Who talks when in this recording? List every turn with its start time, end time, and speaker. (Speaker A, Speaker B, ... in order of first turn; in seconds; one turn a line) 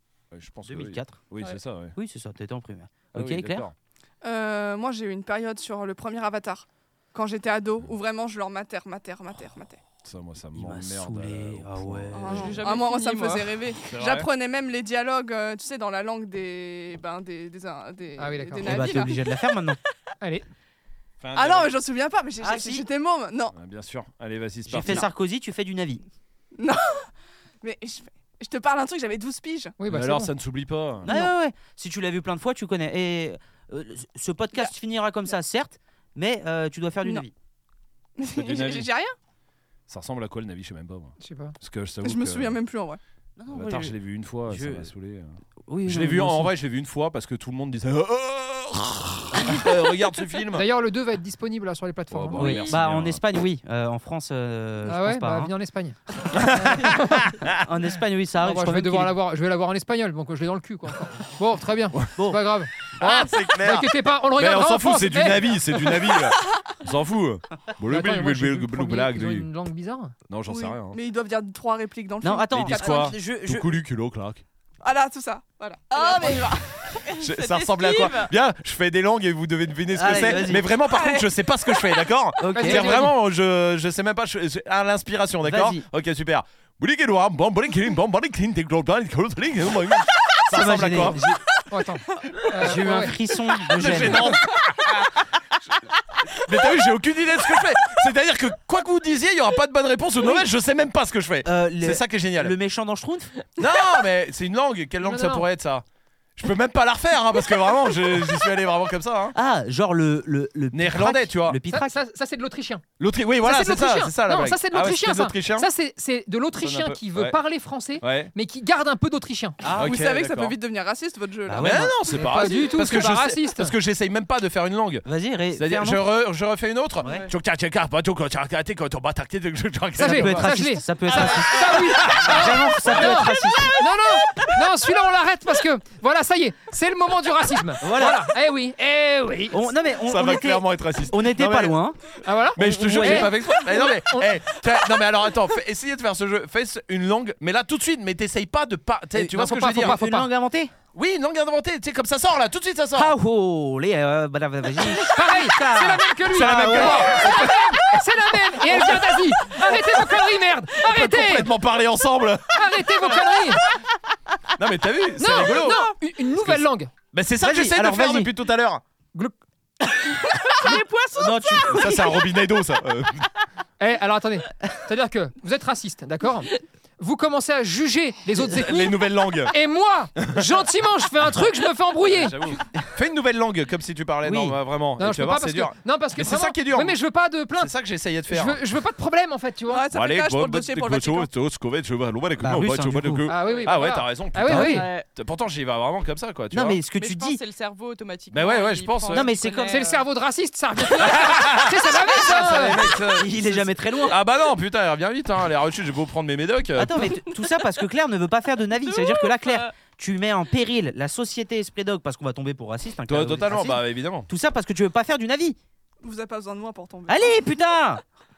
Speaker A: 0.3-1.9
Speaker B: 0.7-1.2
Speaker B: 1.9-3.7
Speaker A: 3.1-3.7
Speaker C: 4.2-9.8
Speaker A: 10.0-12.5
Speaker B: 10.5-12.6
Speaker C: 12.1-19.4
Speaker D: 12.3-13.6
Speaker A: 13.9-14.3
Speaker E: 18.2-18.9
Speaker B: 18.6-19.8
Speaker A: 21.2-21.7
Speaker C: 21.3-23.5
Speaker B: 22.4-22.9
Speaker A: 23.5-25.1
Speaker B: 24.7-26.0
Speaker C: 26.6-27.1
Speaker C: 27.6-29.8
Speaker E: 29.8-30.3
Speaker A: 29.9-31.1
Speaker B: 31.0-37.3
Speaker C: 38.2-39.1
Speaker A: 38.3-38.9
Speaker A: 39.9-42.6
Speaker E: 41.2-41.5
Speaker C: 42.0-43.0
Speaker B: 43.4-44.9
Speaker A: 43.5-50.6
Speaker B: 45.7-46.5
Speaker E: 50.5-52.7
Speaker A: 52.1-53.2
Speaker B: 52.3-55.5
Speaker E: 54.8-57.4
Speaker A: 56.3-57.5
Speaker B: 57.5-59.1
Speaker E: 58.4-66.0
Speaker B: 62.1-62.4
Speaker A: 62.9-69.5
Speaker E: 67.9-70.2
Speaker A: 70.3-71.0
Speaker C: 70.5-73.1
Speaker B: 72.2-73.7
Speaker A: 72.5-74.4
Speaker C: 74.8-77.1
Speaker D: 75.9-78.3
Speaker A: 77.2-91.2
Speaker B: 79.9-80.7
Speaker C: 80.2-82.1
Speaker B: 82.4-83.1
Speaker E: 82.5-83.1
Speaker B: 85.4-85.8
Speaker B: 90.5-91.4
Speaker E: 91.7-93.2
Speaker B: 92.6-94.3
Speaker A: 93.7-95.1
Speaker C: 93.8-94.3
Speaker A: 96.2-102.5
Speaker B: 101.4-103.3
Speaker A: 103.6-105.8
Speaker E: 105.0-105.4
Speaker A: 106.3-109.3
Speaker B: 109.3-112.0
Speaker A: 110.7-111.6
Speaker E: 111.7-112.8
Speaker A: 113.0-115.7
Speaker E: 113.4-119.6
Speaker A: 116.6-117.3
Speaker A: 118.0-118.3
Speaker B: 119.6-120.0
Speaker C: 119.7-121.9
Speaker A: 119.7-120.5
Speaker B: 121.5-122.3
Speaker A: 121.6-130.6
Speaker E: 122.1-123.7
Speaker B: 125.0-126.1
Speaker B: 127.0-127.3
Speaker B: 130.0-133.8
Speaker E: 130.0-139.7
Speaker A: 131.4-133.3
Speaker B: 137.8-138.3
Speaker B: 139.5-142.0
Speaker A: 140.1-141.8
Speaker E: 142.2-144.3
Speaker B: 142.6-143.3
Speaker A: 142.6-150.0
Speaker B: 149.2-150.7
Speaker E: 149.3-150.3
Speaker A: 150.9-153.1
Speaker B: 152.9-157.7
Speaker E: 155.0-161.5
Speaker A: 156.3-157.7
Speaker A: 158.7-159.0
Speaker A: 160.8-163.3
Speaker E: 162.5-163.6
Speaker A: 164.6-168.8
Speaker E: 165.2-166.9
Speaker B: 167.4-168.3
Speaker D: 170.5-172.2
Speaker B: 170.6-172.0
Speaker A: 171.7-173.3
Speaker E: 173.8-182.6
Speaker A: 178.4-179.5
Speaker A: 180.2-180.6
Speaker A: 182.1-187.0
Speaker B: 184.2-184.6
Speaker E: 185.0-187.7
Speaker A: 187.6-188.6
Speaker E: 188.2-189.9
Speaker C: 189.7-191.3
Speaker A: 189.9-196.8
Speaker B: 192.4-193.3
Speaker E: 193.3-194.9
Speaker D: 193.4-193.9
Speaker B: 194.4-194.9
Speaker D: 194.5-195.1
Speaker B: 196.5-197.4
Speaker D: 197.0-200.0
Speaker A: 198.3-199.3
Speaker B: 199.1-199.8
Speaker E: 199.7-202.8
Speaker A: 200.9-207.1
Speaker B: 203.1-204.2
Speaker B: 206.8-215.6
Speaker D: 208.9-209.6
Speaker A: 213.1-214.3
Speaker C: 216.0-217.3
Speaker B: 217.1-218.0